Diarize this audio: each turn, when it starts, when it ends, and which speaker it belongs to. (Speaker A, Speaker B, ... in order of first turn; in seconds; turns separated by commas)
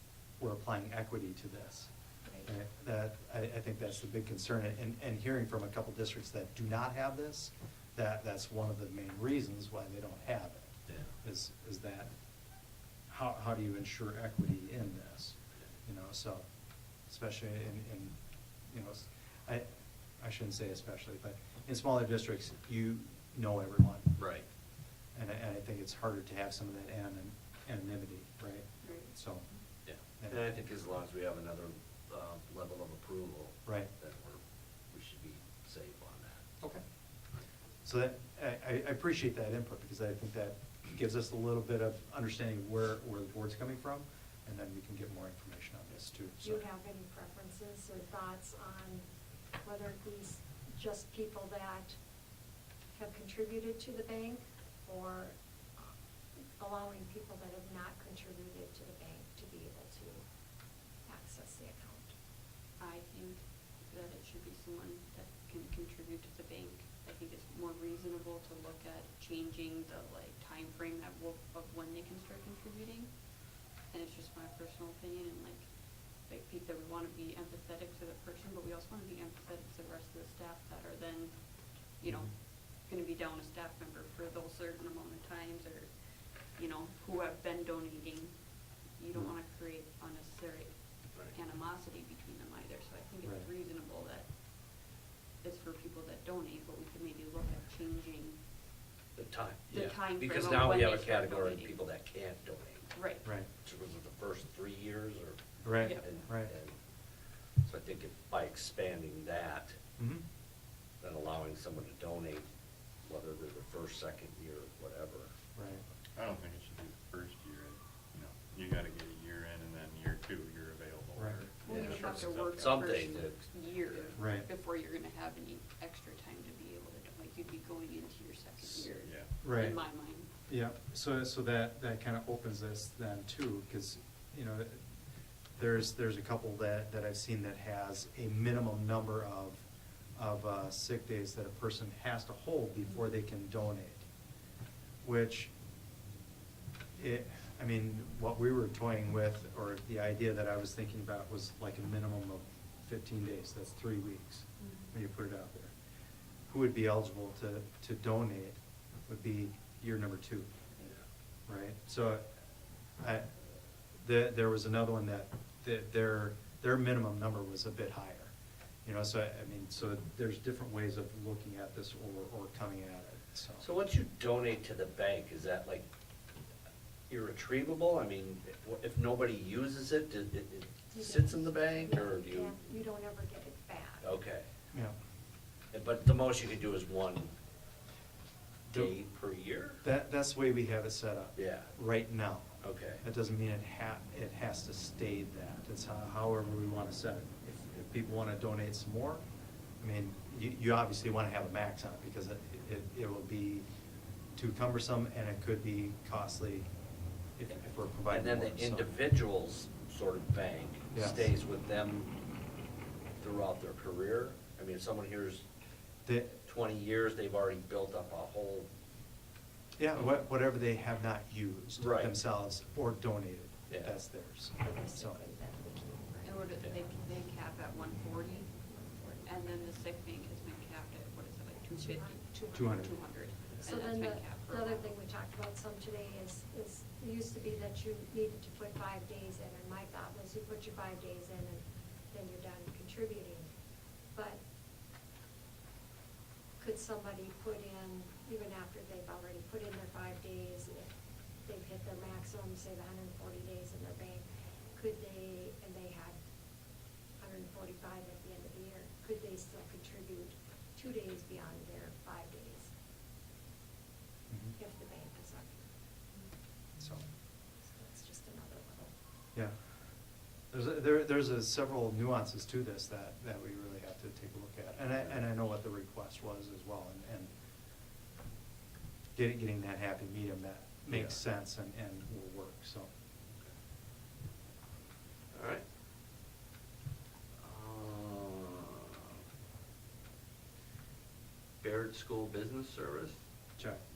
Speaker A: 0.4-1.9, Speaker B: 2.2-2.5, Speaker A: 2.5-12.1, Speaker A: 13.1-16.4, Speaker A: 17.1-18.1, Speaker A: 18.7-19.7, Speaker A: 20.2-24.2, Speaker C: 24.2-24.4, Speaker A: 25.1-29.4, Speaker D: 28.8-29.1, Speaker C: 29.9-36.5, Speaker A: 37.8-46.6, Speaker B: 46.4-49.0, Speaker B: 49.6-51.9, Speaker B: 52.9-55.9, Speaker B: 56.6-60.2, Speaker B: 61.0-62.1, Speaker D: 62.8-73.1, Speaker D: 73.9-75.7, Speaker D: 76.2-81.3, Speaker D: 81.9-85.9, Speaker D: 86.5-88.3, Speaker D: 88.9-94.3, Speaker A: 93.2-93.5, Speaker D: 95.4-98.4, Speaker C: 99.2-102.9, Speaker D: 99.7-101.8, Speaker D: 102.9-103.3, Speaker C: 103.6-106.8, Speaker A: 105.6-106.5, Speaker D: 105.8-106.1, Speaker C: 107.6-109.8, Speaker A: 110.0-110.2, Speaker C: 111.0-112.4, Speaker C: 113.0-115.3, Speaker A: 115.5-115.8, Speaker E: 116.2-122.8, Speaker D: 121.6-130.3, Speaker C: 121.7-123.5, Speaker A: 124.2-124.5, Speaker E: 129.0-129.4, Speaker A: 129.4-129.8, Speaker A: 130.4-134.8, Speaker A: 135.6-139.6, Speaker A: 140.2-144.1, Speaker A: 145.0-145.5, Speaker A: 147.0-155.7, Speaker D: 154.6-154.9, Speaker A: 156.5-160.5, Speaker A: 161.5-162.2, Speaker A: 163.0-163.3, Speaker A: 163.9-168.3, Speaker A: 168.8-173.6, Speaker C: 173.6-175.8, Speaker C: 177.1-182.6, Speaker B: 180.9-184.1, Speaker C: 184.0-184.4, Speaker C: 185.7-187.3, Speaker C: 188.7-189.8, Speaker A: 189.8-199.2, Speaker C: 191.3-191.7, Speaker C: 192.6-193.0, Speaker A: 199.8-203.7, Speaker A: 204.3-206.7, Speaker A: 207.4-208.9, Speaker C: 208.1-212.1, Speaker A: 210.9-211.3, Speaker C: 213.2-215.4, Speaker A: 216.1-216.4, Speaker C: 216.4-218.7, Speaker A: 219.8-225.2, Speaker C: 221.8-222.1, Speaker B: 224.6-226.4, Speaker D: 226.2-228.5, Speaker B: 228.7-229.3, Speaker D: 229.2-235.0, Speaker B: 231.8-233.0, Speaker A: 232.5-232.9, Speaker B: 233.6-243.5, Speaker B: 244.1-244.4, Speaker B: 246.6-250.9, Speaker B: 251.4-254.2, Speaker B: 254.7-256.1, Speaker B: 257.2-262.7, Speaker B: 264.6-265.6, Speaker A: 266.8-267.0, Speaker B: 267.6-268.9, Speaker A: 270.5-277.3, Speaker A: 279.1-282.9, Speaker C: 285.3-285.6, Speaker C: 287.4-289.2, Speaker C: 291.6-293.1